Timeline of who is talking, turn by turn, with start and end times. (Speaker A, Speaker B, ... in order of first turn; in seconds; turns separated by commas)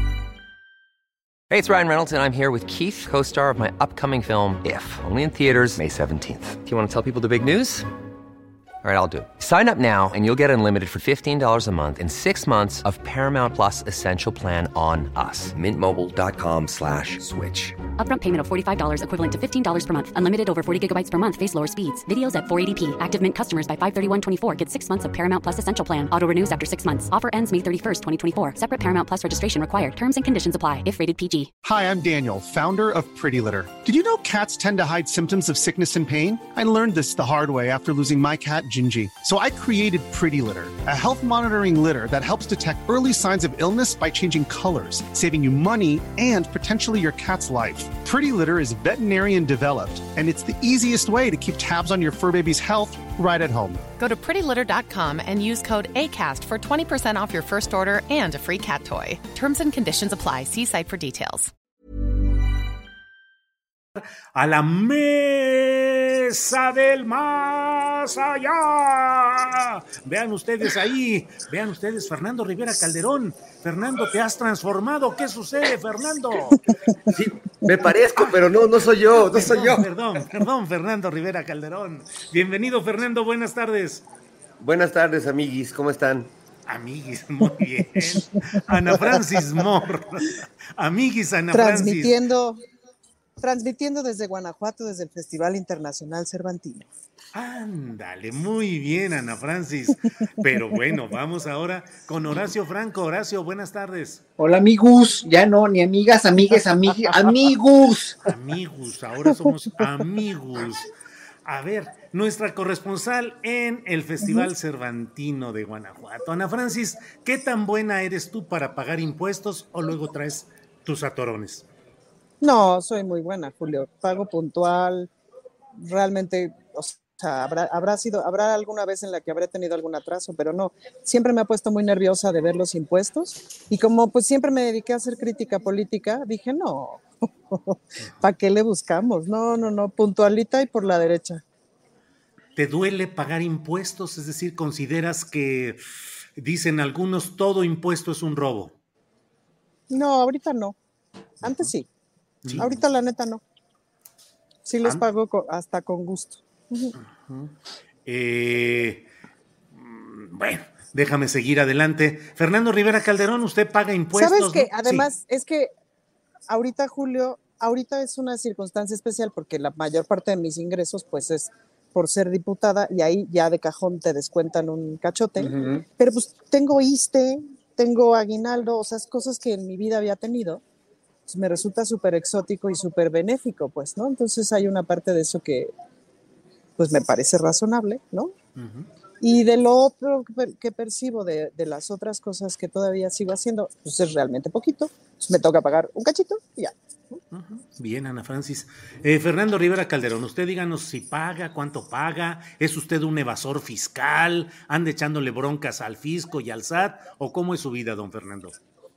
Speaker A: 1.5-7.9, Speaker A: 8.8-17.8, Speaker B: 18.0-31.5, Speaker C: 31.6-53.8, Speaker D: 54.0-61.5, Speaker E: 64.3-76.7, Speaker F: 77.1-79.8, Speaker E: 78.2-78.5, Speaker E: 79.3-84.0, Speaker F: 84.6-86.3, Speaker E: 86.7-92.1, Speaker G: 91.5-92.6, Speaker G: 93.4-96.9, Speaker E: 97.3-104.2, Speaker H: 104.4-108.2, Speaker E: 108.2-110.9, Speaker E: 111.5-121.7, Speaker G: 122.4-125.1, Speaker G: 125.8-141.4, Speaker E: 142.6-145.8, Speaker E: 146.4-148.8, Speaker G: 149.9-150.8, Speaker G: 151.4-151.9, Speaker E: 151.4-151.7, Speaker E: 152.4-152.8, Speaker G: 152.5-153.4, Speaker G: 154.7-156.9, Speaker E: 157.3-157.5, Speaker E: 158.1-159.1, Speaker E: 159.7-165.1, Speaker G: 164.1-165.7, Speaker G: 166.5-180.6, Speaker G: 181.3-185.7, Speaker G: 186.8-188.3, Speaker E: 188.6-188.9, Speaker G: 189.2-197.2, Speaker E: 197.3-208.6